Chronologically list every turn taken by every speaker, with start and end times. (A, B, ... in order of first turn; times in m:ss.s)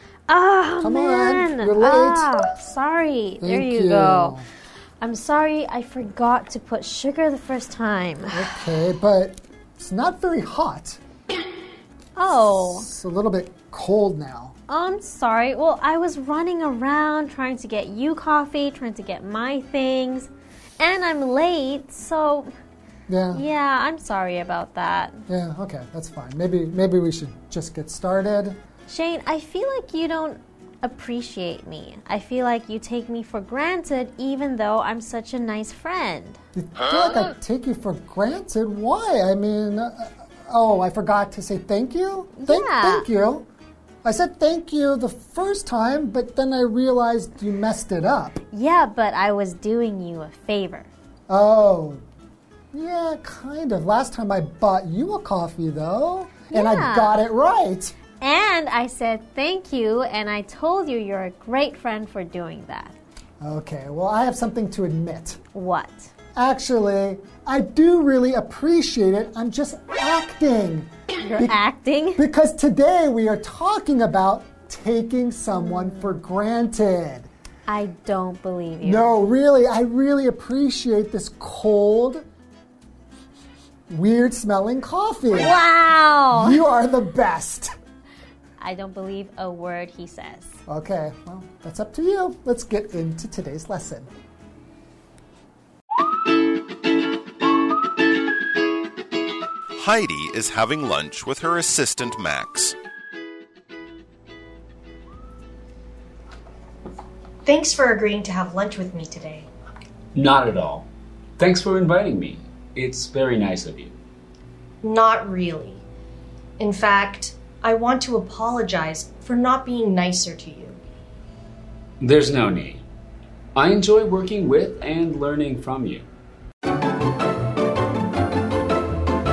0:00.3-0:04.4 A
0:00.8-0:02.3 B
0:03.4-0:04.5 B
0:05.0-0:08.5 A
0:08.3-0:11.0 B
0:12.2-0:12.8 A
0:12.3-0:14.5 B
0:14.7-0:22.5 A
0:23.1-0:23.4 B
0:23.3-0:25.2 A
0:25.3-0:28.6 B
0:28.9-0:36.4 A
0:36.5-0:43.5 B
0:42.4-0:43.1 A
0:44.0-0:48.3 B
0:48.5-0:50.9 A
0:51.3-0:52.0 B
0:52.7-0:57.9 B
0:56.5-0:57.2 A
0:58.2-1:03.0 A
1:03.4-1:05.4 B
1:05.5-1:06.1 A
1:06.4-1:11.6 B
1:11.2-1:12.2 A
1:12.2-1:17.3 B
1:15.5-1:16.2 A
1:17.7-1:19.1 A
1:18.8-1:22.2 B
1:23.9-1:25.6 B
1:25.3-1:26.6 A
1:26.3-1:27.7 B
1:28.6-1:30.6 A
1:30.7-1:34.1 B
1:39.8-1:42.7 C
1:47.4-1:49.4 D
1:50.2-1:50.9 E
1:51.4-1:53.9 E
1:54.8-1:55.8 D
1:56.6-2:00.8 D
2:02.0-2:02.8 E
2:03.6-2:06.1 E